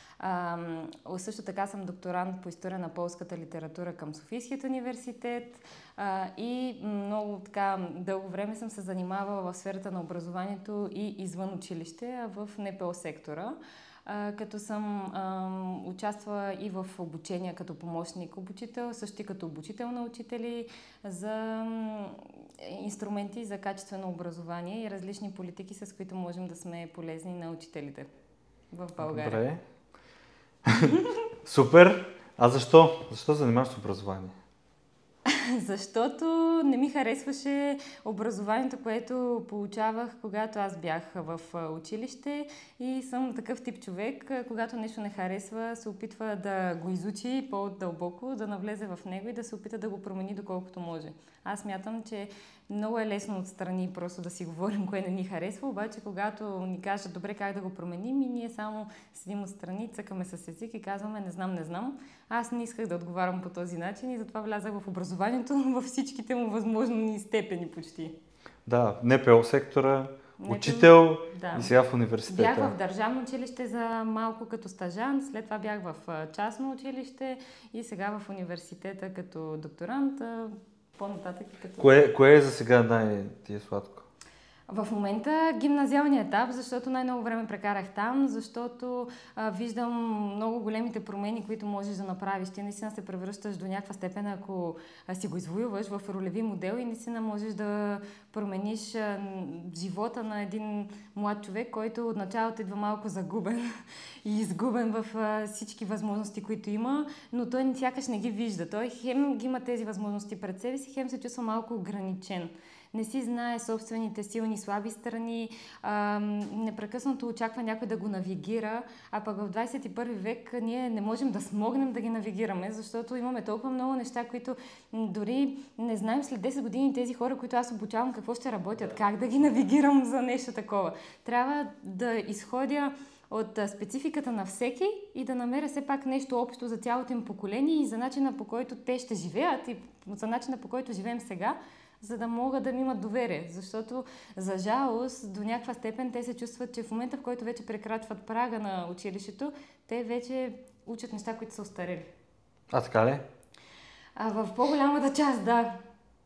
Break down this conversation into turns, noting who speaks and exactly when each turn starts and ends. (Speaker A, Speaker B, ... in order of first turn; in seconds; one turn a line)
Speaker A: 0.2-28.1
Speaker A: 28.7-29.4
Speaker B: 29.0-29.6
Speaker B: 30.6-34.4
Speaker A: 30.8-31.2
Speaker A: 35.3-68.2
Speaker B: 68.7-72.7
Speaker A: 70.4-71.7
Speaker A: 72.3-82.0
Speaker B: 81.8-84.0
Speaker A: 84.7-103.7
Speaker A: 104.2-152.1
Speaker B: 152.7-153.2
Speaker A: 154.2-155.8